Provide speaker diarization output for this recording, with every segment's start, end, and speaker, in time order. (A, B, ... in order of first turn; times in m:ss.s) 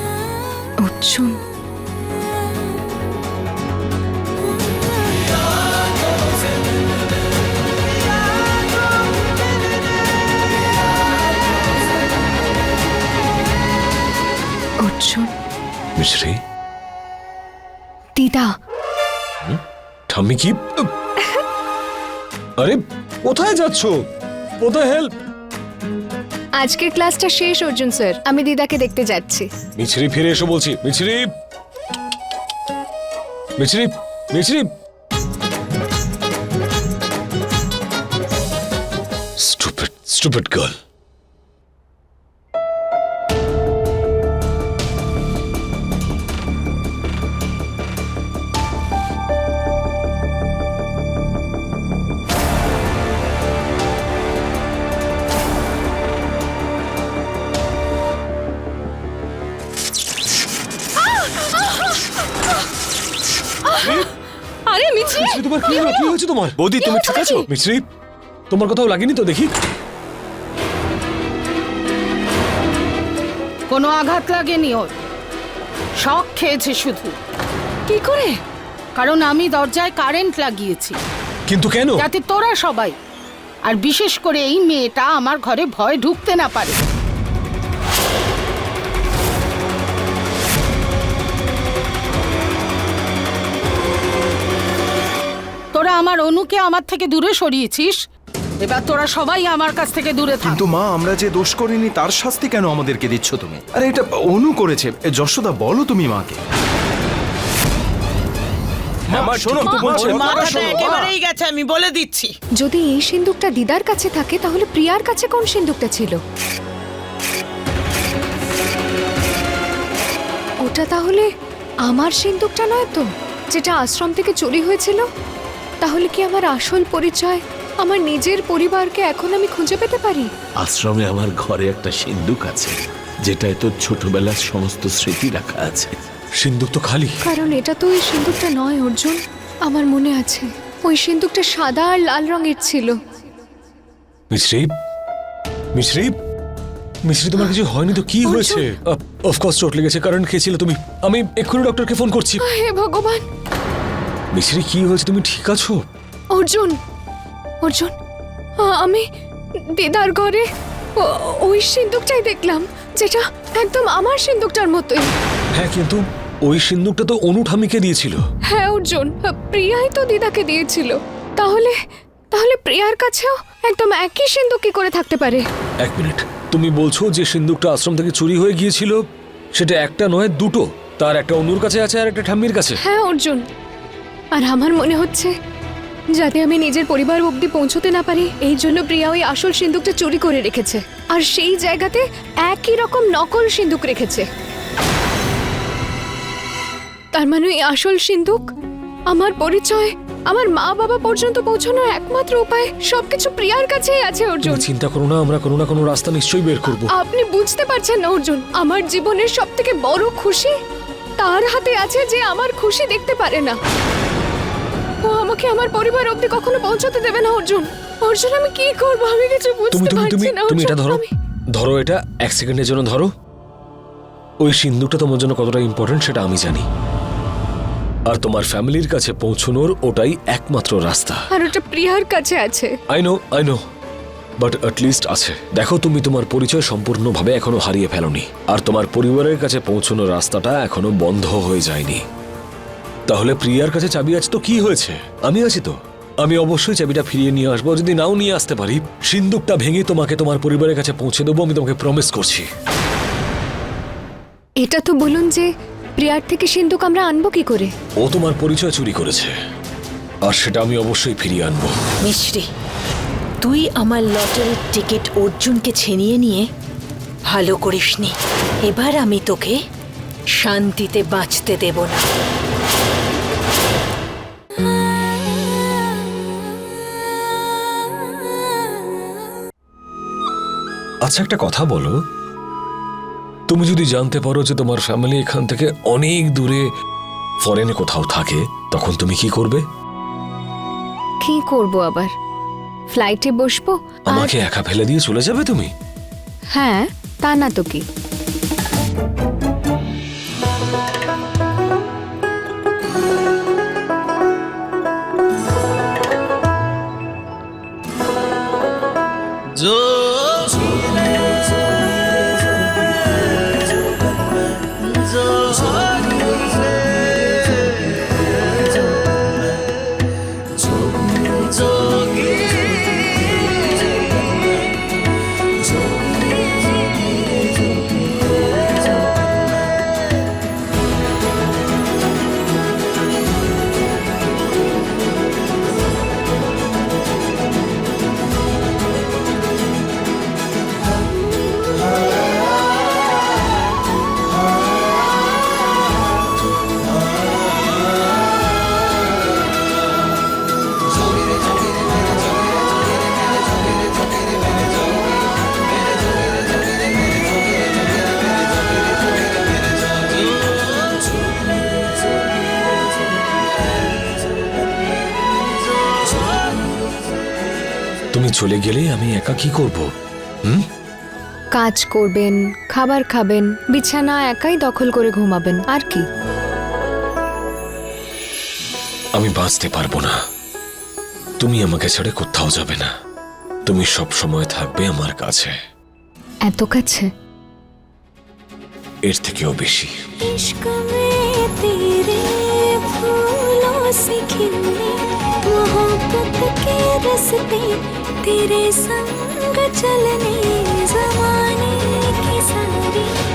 0:00.8-0:01.4 A
0:14.8-0:15.3 A
0:16.0-0:16.4 B
0:18.2-0:18.5 A
0:19.4-0:20.9 B
0:22.6-0:24.0 B
0:24.6-0:25.1 B
0:26.6-0:29.5 A
0:29.8-0:31.3 B
0:33.6-0:34.7 B
0:39.4-0:40.8 B
1:03.8-1:04.1 B
1:04.7-1:06.0 A
1:05.0-1:07.9 B
1:06.6-1:07.3 C
1:06.8-1:07.4 A
1:08.5-1:09.5 B
1:13.7-1:15.0 D
1:16.0-1:17.2 D
1:17.9-1:18.4 A
1:19.0-1:21.0 D
1:21.5-1:22.0 B
1:22.0-1:23.0 D
1:23.7-1:26.8 D
1:35.7-1:38.0 D
1:38.6-1:40.6 D
1:40.4-1:46.4 C
1:49.1-1:51.1 C
1:49.1-1:50.9 B
1:49.7-1:52.3 E
1:52.6-1:56.2 A
2:00.6-2:01.3 A
2:01.8-2:05.1 A
2:05.8-2:10.3 A
2:10.6-2:15.9 F
2:16.4-2:17.2 B
2:17.2-2:23.0 A
2:24.3-2:24.7 B
2:25.8-2:26.2 B
2:27.1-2:32.4 B
2:28.2-2:28.7 A
2:32.4-2:33.2 A
2:34.3-2:35.9 B
2:36.4-2:36.8 A
2:37.6-2:37.9 A
2:38.6-2:39.1 A
2:39.7-2:40.5 A
2:41.0-2:45.1 A
2:45.6-2:48.2 B
2:48.5-2:51.8 A
2:52.3-2:55.5 A
2:55.8-3:02.8 B
3:02.8-3:03.5 A
3:04.3-3:05.4 A
3:06.1-3:14.3 A
3:17.1-3:18.5 A
3:19.1-3:24.7 A
3:24.4-3:26.9 B
3:26.8-3:30.6 A
3:31.2-3:33.6 A
3:35.0-3:41.1 A
3:39.7-3:41.0 B
3:41.6-3:43.1 B
3:44.4-3:46.7 B
3:48.1-3:51.2 B
3:51.3-3:52.8 A
3:52.9-3:53.6 B
3:54.4-4:02.1 B
4:03.1-4:12.5 B
4:14.6-4:17.7 A
4:18.0-4:19.3 B
4:20.2-4:21.8 B
4:22.0-4:22.5 G
4:23.4-4:26.5 G
4:27.3-4:28.2 G
4:28.7-4:29.6 G
4:30.4-4:32.0 G
4:41.0-4:42.0 B
4:43.5-4:46.7 B
4:47.4-4:49.6 B
4:51.2-4:52.1 A
4:52.9-4:54.3 A
4:54.1-4:55.7 B
4:56.5-4:57.8 A
6:08.1-6:09.9 B
6:11.6-6:16.1 A
6:19.2-6:20.2 B
6:21.4-6:22.9 B
6:23.7-6:25.6 B
6:26.5-6:27.1 A
6:29.0-6:29.9 B
6:30.2-6:43.1 H